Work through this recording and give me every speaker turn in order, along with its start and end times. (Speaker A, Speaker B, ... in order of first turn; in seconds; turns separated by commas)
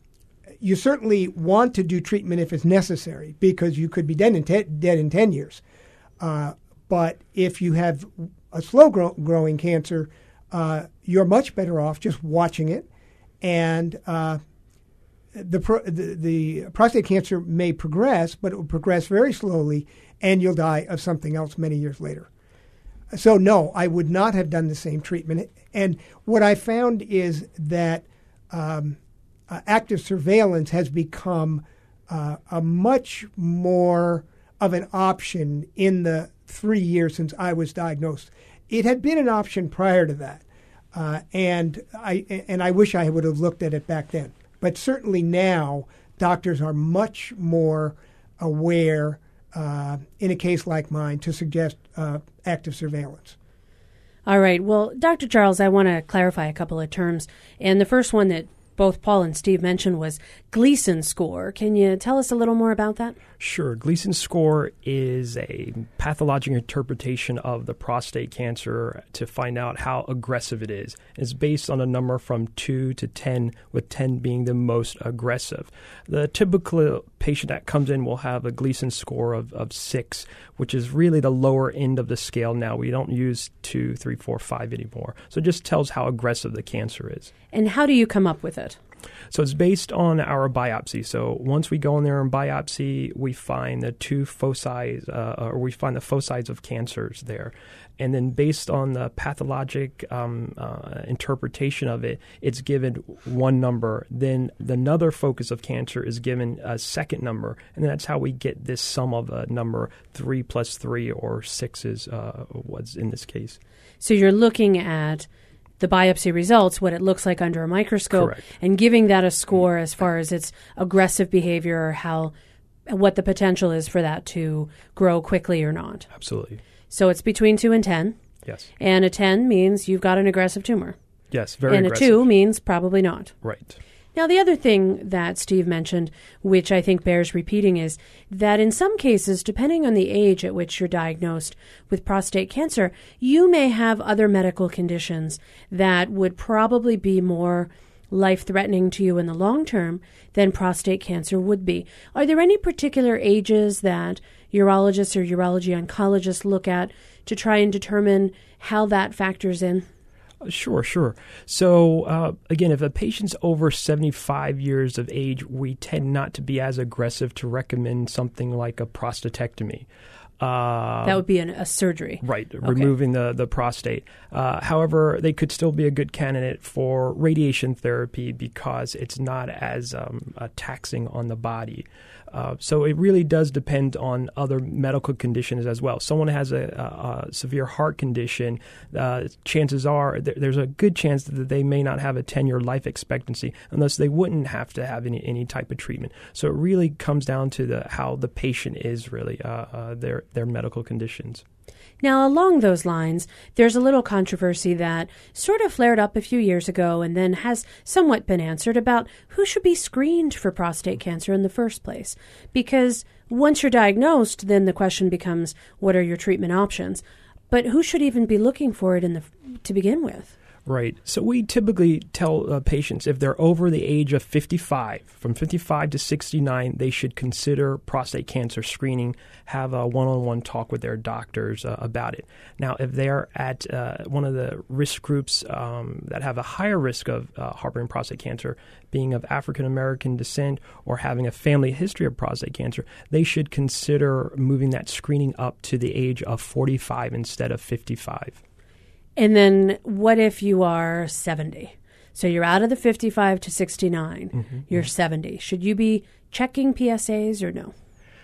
Speaker A: 0.6-5.6, Speaker A: 6.2-12.8, Speaker A: 13.4-14.4, Speaker A: 15.3-22.3, Speaker A: 23.1-29.0, Speaker A: 29.5-53.4, Speaker B: 54.2-63.2, Speaker C: 63.4-87.3, Speaker B: 87.5-88.8, Speaker C: 89.3-113.6, Speaker B: 114.0-115.3, Speaker B: 115.8-122.3, Speaker C: 118.1-118.4, Speaker B: 122.9-126.1, Speaker C: 126.1-126.6, Speaker B: 126.9-128.2, Speaker B: 128.8-130.9, Speaker C: 131.3-132.2, Speaker B: 131.7-133.3, Speaker C: 133.4-133.8, Speaker B: 134.1-159.8, Speaker C: 160.4-169.8, Speaker C: 170.4-171.2, Speaker B: 171.0-172.9, Speaker C: 172.2-201.4, Speaker B: 202.0-220.3, Speaker C: 220.7-248.4, Speaker B: 249.2-257.7